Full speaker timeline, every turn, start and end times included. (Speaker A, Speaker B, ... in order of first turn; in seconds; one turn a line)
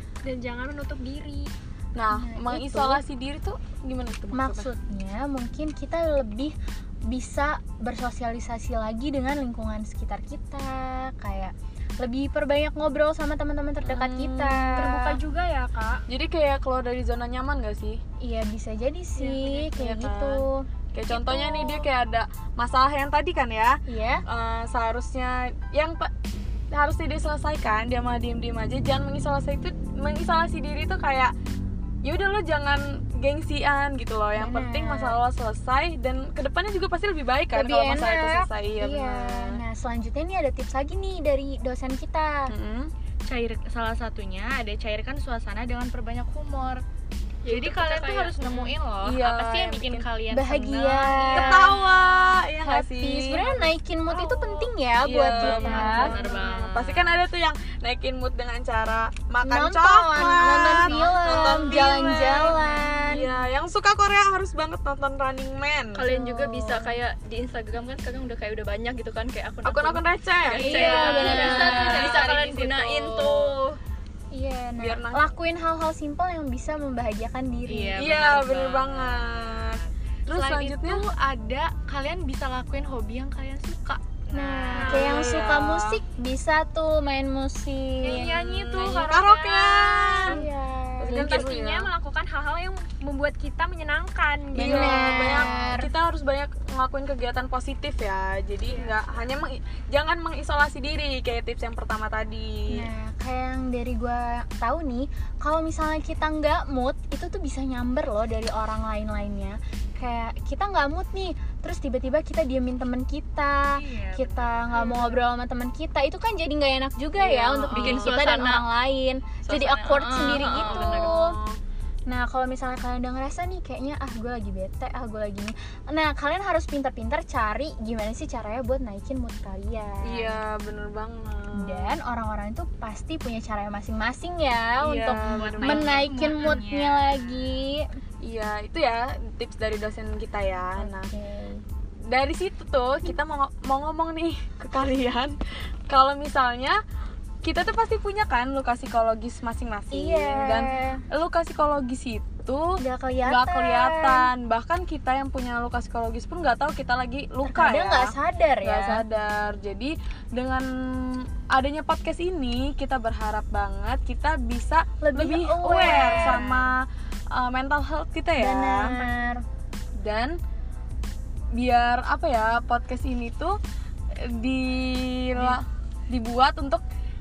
Speaker A: 0.2-1.5
Speaker B: 1.9-4.7
Speaker C: 2.1-3.0
Speaker C: 4.3-6.5
Speaker C: 7.1-15.2
Speaker B: 13.8-14.9
Speaker A: 14.8-16.0
Speaker B: 16.1-18.0
Speaker C: 18.2-21.9
Speaker B: 19.2-26.1
Speaker C: 23.9-24.2
Speaker B: 26.7-31.3
Speaker B: 32.0-39.6
Speaker C: 34.4-35.2
Speaker C: 37.5-42.5
Speaker B: 42.5-42.9
Speaker D: 43.2-46.8
Speaker E: 47.4-48.6
Speaker D: 47.4-51.5
Speaker B: 49.0-50.1
Speaker C: 50.3-51.8
Speaker B: 51.3-54.5
Speaker C: 52.6-56.1
Speaker B: 55.0-66.0
Speaker D: 55.3-57.2
Speaker C: 59.4-63.3
Speaker E: 65.9-73.8
Speaker C: 66.1-67.0
Speaker B: 69.6-73.5
Speaker C: 70.6-72.2
Speaker D: 70.7-72.8
Speaker A: 71.2-71.6
Speaker C: 74.3-78.0
Speaker B: 74.8-75.2
Speaker D: 77.7-85.4
Speaker B: 78.0-81.0
Speaker C: 84.3-88.3
Speaker A: 84.7-85.2
Speaker B: 84.9-86.0
Speaker A: 88.0-90.4
Speaker B: 88.0-90.4
Speaker C: 90.2-91.5
Speaker B: 91.0-91.9
Speaker A: 91.1-95.5
Speaker B: 94.5-102.9
Speaker C: 94.5-95.9
Speaker C: 102.7-121.4
Speaker D: 113.8-115.0
Speaker B: 117.2-118.1
Speaker E: 117.7-118.7
Speaker E: 119.4-121.1
Speaker B: 120.3-121.6
Speaker C: 122.1-130.4
Speaker B: 130.0-131.9
Speaker C: 131.5-137.9
Speaker B: 134.8-136.1
Speaker D: 135.2-137.5
Speaker B: 138.2-141.1
Speaker C: 140.8-141.6
Speaker B: 142.1-145.4
Speaker B: 145.9-146.8
Speaker B: 147.4-169.0
Speaker C: 149.9-151.0
Speaker C: 152.8-154.3
Speaker C: 157.4-159.0
Speaker C: 165.0-166.7
Speaker C: 168.4-169.4
Speaker B: 170.0-170.4
Speaker B: 171.5-173.6
Speaker B: 174.1-176.8